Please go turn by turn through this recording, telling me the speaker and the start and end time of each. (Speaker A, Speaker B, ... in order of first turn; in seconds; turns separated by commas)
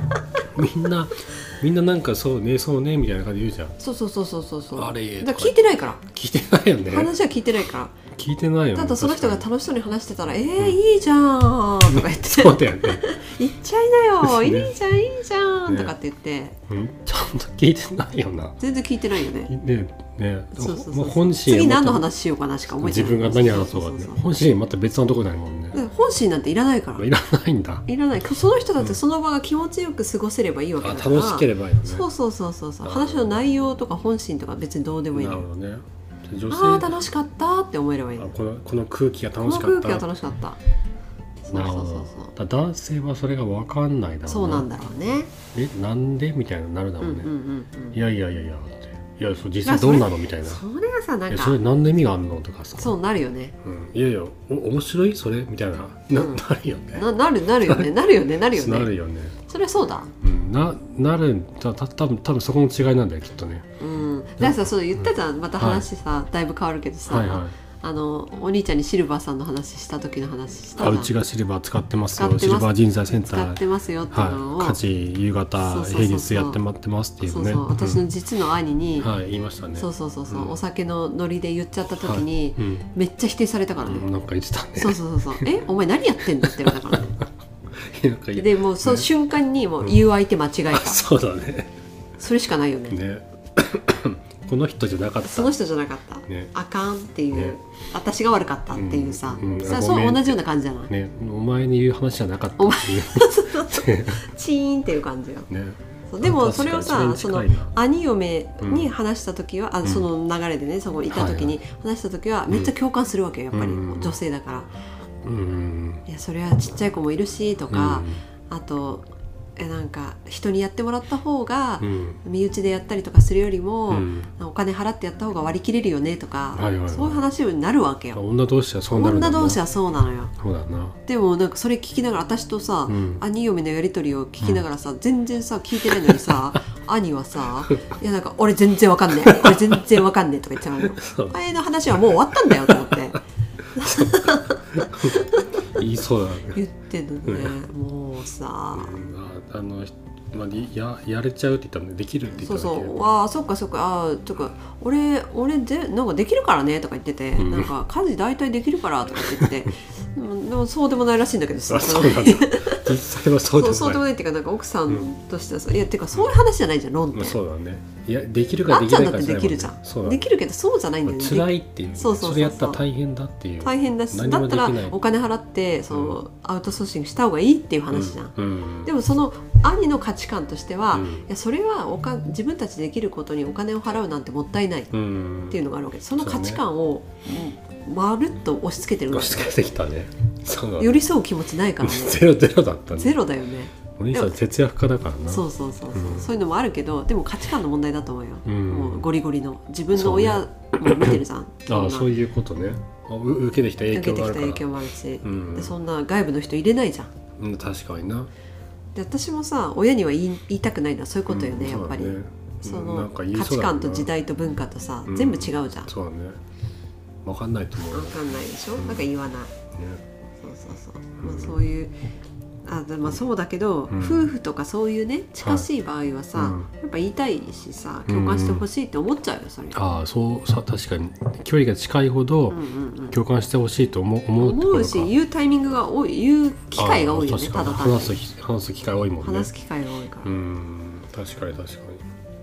Speaker A: 0.5-3.8, Speaker B: 3.8-6.0, Speaker A: 4.7-7.1, Speaker B: 6.9-8.0, Speaker A: 8.1-9.4, Speaker B: 8.7-16.6, Speaker A: 11.9-13.1, Speaker A: 14.2-14.7, Speaker A: 15.7-15.9, Speaker A: 16.7-18.6, Speaker B: 18.6-19.5, Speaker A: 19.5-22.1, Speaker B: 20.5-24.2, Speaker A: 22.8-25.8, Speaker B: 25.7-27.1, Speaker A: 26.9-27.9, Speaker B: 27.9-35.4, Speaker A: 30.8-32.1, Speaker A: 32.8-33.4, Speaker A: 35.1-37.0, Speaker B: 36.5-38.3, Speaker A: 38.2-40.1, Speaker B: 39.4-40.6, Speaker B: 41.4-42.3, Speaker A: 41.5-44.7, Speaker B: 44.3-45.3, Speaker A: 45.5-47.3, Speaker B: 47.0-48.0, Speaker A: 47.9-50.6, Speaker B: 49.6-51.6, Speaker A: 51.3-53.0, Speaker B: 52.8-53.5, Speaker A: 53.6-57.0, Speaker B: 56.1-56.4, Speaker B: 56.9-58.9, Speaker A: 57.6-59.4, Speaker B: 59.5-60.1, Speaker A: 60.2-63.7, Speaker B: 63.8-71.1, Speaker A: 64.4-65.8, Speaker A: 67.1-67.5, Speaker A: 70.8-78.0, Speaker B: 72.1-74.8, Speaker B: 75.6-76.6, Speaker B: 77.2-79.1, Speaker A: 79.0-80.6, Speaker B: 79.7-84.1, Speaker A: 82.0-82.8, Speaker A: 83.8-85.5, Speaker B: 84.8-87.1, Speaker A: 86.4-87.2, Speaker A: 87.7-89.1, Speaker B: 88.3-91.0, Speaker A: 90.7-91.7, Speaker B: 92.2-93.0, Speaker A: 92.9-95.6, Speaker B: 95.2-100.9, Speaker A: 98.7-104.3, Speaker B: 102.6-105.5, Speaker A: 105.5-107.7, Speaker B: 106.1-114.7, Speaker A: 108.6-108.9, Speaker A: 111.1-111.6, Speaker A: 113.5-114.2, Speaker A: 115.2-116.0, Speaker B: 116.0-128.2, Speaker A: 117.7-118.2, Speaker A: 121.8-122.2, Speaker A: 123.9-124.3, Speaker A: 126.5-127.2, Speaker A: 128.1-129.6, Speaker B: 128.9-130.3, Speaker A: 130.4-131.0, Speaker B: 131.1-143.2, Speaker A: 132.9-133.2, Speaker A: 135.9-136.5, Speaker A: 139.2-139.8, Speaker A: 140.8-141.4, Speaker A: 141.9-143.2, Speaker A: 143.7-146.6, Speaker B: 143.7-145.8, Speaker B: 146.5-149.0, Speaker A: 147.2-147.6, Speaker A: 148.7-152.9, Speaker B: 152.3-163.0, Speaker A: 157.3-157.7, Speaker A: 159.2-159.5, Speaker A: 161.7-164.0, Speaker B: 163.5-167.4, Speaker A: 167.1-170.3, Speaker B: 168.7-172.8, Speaker A: 171.0-175.0, Speaker B: 173.6-184.9, Speaker A: 175.9-176.2, Speaker A: 177.9-178.9, Speaker A: 180.9-181.2, Speaker A: 184.9-185.6, Speaker B: 185.5-189.5, Speaker A: 186.2-186.6, Speaker A: 189.1-191.0, Speaker B: 190.8-192.2, Speaker A: 191.8-193.2, Speaker B: 192.9-194.3, Speaker A: 193.9-196.3, Speaker B: 195.3-202.1, Speaker A: 198.4-199.1, Speaker A: 199.9-204.7, Speaker B: 203.9-207.1, Speaker A: 205.2-205.8, Speaker A: 207.4-208.3, Speaker B: 208.9-215.9, Speaker A: 211.3-214.1, Speaker A: 215.1-216.4, Speaker A: 217.2-218.2, Speaker B: 217.9-219.5, Speaker A: 218.8-219.1, Speaker A: 219.7-220.0, Speaker B: 220.4-221.9, Speaker A: 221.2-221.6, Speaker B: 222.6-229.8, Speaker A: 223.9-224.3, Speaker A: 225.4-225.7, Speaker A: 226.3-226.7, Speaker A: 228.1-228.7, Speaker A: 229.7-235.1, Speaker B: 232.5-233.2, Speaker B: 234.4-238.2, Speaker A: 236.8-239.5, Speaker B: 239.2-240.3, Speaker A: 240.2-242.0